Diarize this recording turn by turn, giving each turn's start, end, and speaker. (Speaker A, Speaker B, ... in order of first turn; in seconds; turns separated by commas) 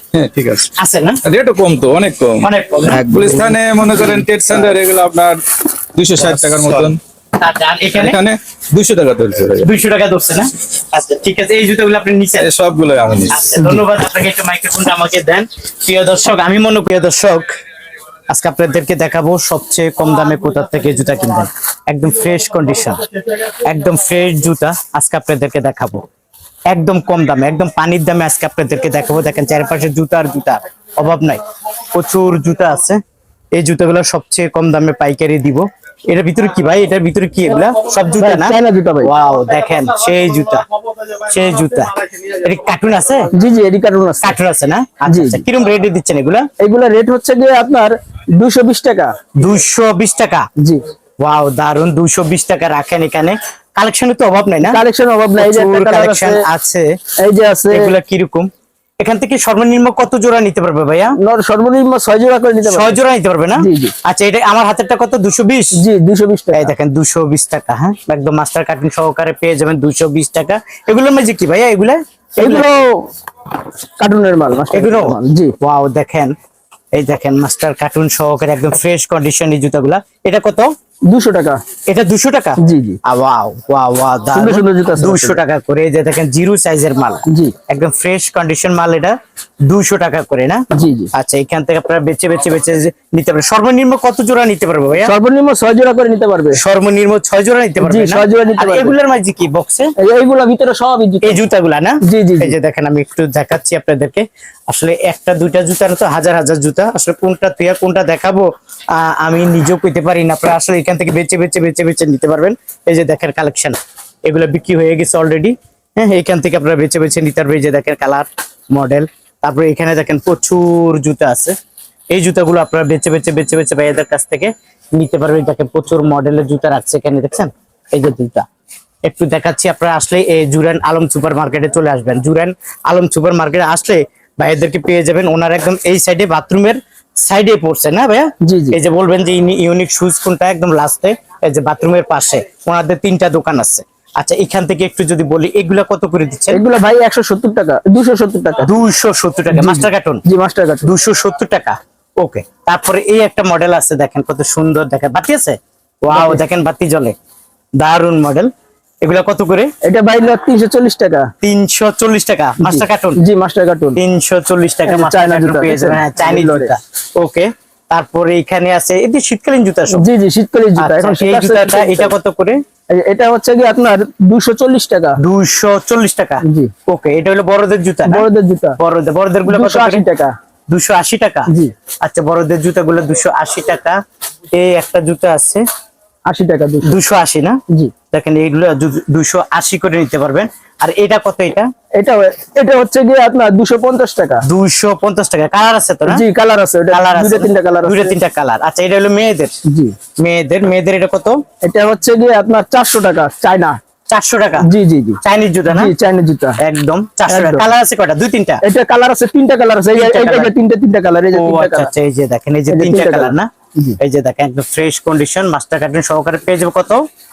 Speaker A: 0.1-0.7, Speaker B: 0.8-1.2, Speaker A: 1.2-5.4, Speaker B: 2.4-3.4, Speaker A: 5.9-7.0, Speaker B: 6.2-8.2, Speaker A: 8.0-9.7, Speaker B: 9.6-12.5, Speaker A: 12.4-13.5, Speaker B: 13.3-17.4, Speaker B: 18.3-26.0, Speaker B: 26.7-31.4, Speaker B: 31.9-33.0, Speaker B: 33.5-40.6, Speaker C: 38.2-39.1, Speaker B: 41.2-43.3, Speaker C: 43.3-44.3, Speaker B: 44.2-46.5, Speaker C: 45.1-45.4, Speaker C: 46.6-49.1, Speaker B: 49.4-50.5, Speaker B: 51.2-54.8, Speaker C: 54.6-56.4, Speaker B: 55.4-56.9, Speaker C: 57.2-57.9, Speaker B: 57.7-58.5, Speaker B: 59.0-61.1, Speaker C: 61.2-63.0, Speaker B: 62.6-65.7, Speaker C: 63.6-63.9, Speaker C: 65.8-66.7, Speaker B: 66.5-72.8, Speaker C: 72.4-73.1, Speaker C: 74.0-75.5, Speaker B: 74.7-76.3, Speaker B: 76.9-80.7, Speaker C: 81.1-81.6, Speaker B: 81.9-89.1, Speaker C: 82.6-83.0, Speaker C: 84.3-85.4, Speaker C: 87.3-87.5, Speaker B: 89.7-95.1, Speaker C: 90.7-91.1, Speaker C: 95.0-96.6, Speaker B: 96.5-99.9, Speaker C: 97.8-98.9, Speaker C: 100.0-101.4, Speaker B: 101.2-121.5, Speaker C: 102.0-102.5, Speaker B: 122.1-128.4, Speaker B: 129.0-146.6, Speaker C: 138.4-138.8, Speaker C: 146.5-148.7, Speaker B: 148.6-150.2, Speaker C: 149.5-150.9, Speaker B: 150.8-157.1, Speaker C: 156.1-156.4, Speaker B: 157.8-158.5, Speaker B: 159.0-159.7, Speaker C: 159.8-161.3, Speaker B: 161.4-163.2, Speaker C: 162.6-164.0, Speaker B: 163.9-170.0, Speaker C: 164.9-166.7, Speaker C: 169.9-172.1, Speaker B: 170.8-172.6, Speaker C: 172.9-175.2, Speaker B: 175.2-178.2, Speaker C: 176.4-176.7, Speaker C: 178.1-178.8, Speaker B: 178.8-180.0, Speaker C: 179.5-180.3, Speaker B: 180.7-181.5, Speaker B: 182.0-184.0, Speaker B: 184.5-185.6, Speaker C: 186.3-186.9, Speaker B: 186.8-187.6, Speaker B: 188.1-191.7, Speaker C: 192.0-194.4, Speaker B: 194.4-196.2, Speaker C: 196.1-198.1, Speaker B: 196.9-199.5, Speaker C: 199.7-199.9, Speaker B: 200.2-201.4, Speaker C: 201.6-203.8, Speaker B: 204.1-204.7, Speaker C: 204.6-205.2, Speaker B: 205.2-205.9, Speaker C: 205.7-206.6, Speaker B: 206.6-208.6, Speaker C: 207.3-207.7, Speaker C: 208.6-211.9, Speaker B: 209.9-210.5, Speaker B: 211.3-213.5, Speaker C: 212.7-213.9, Speaker B: 214.0-217.0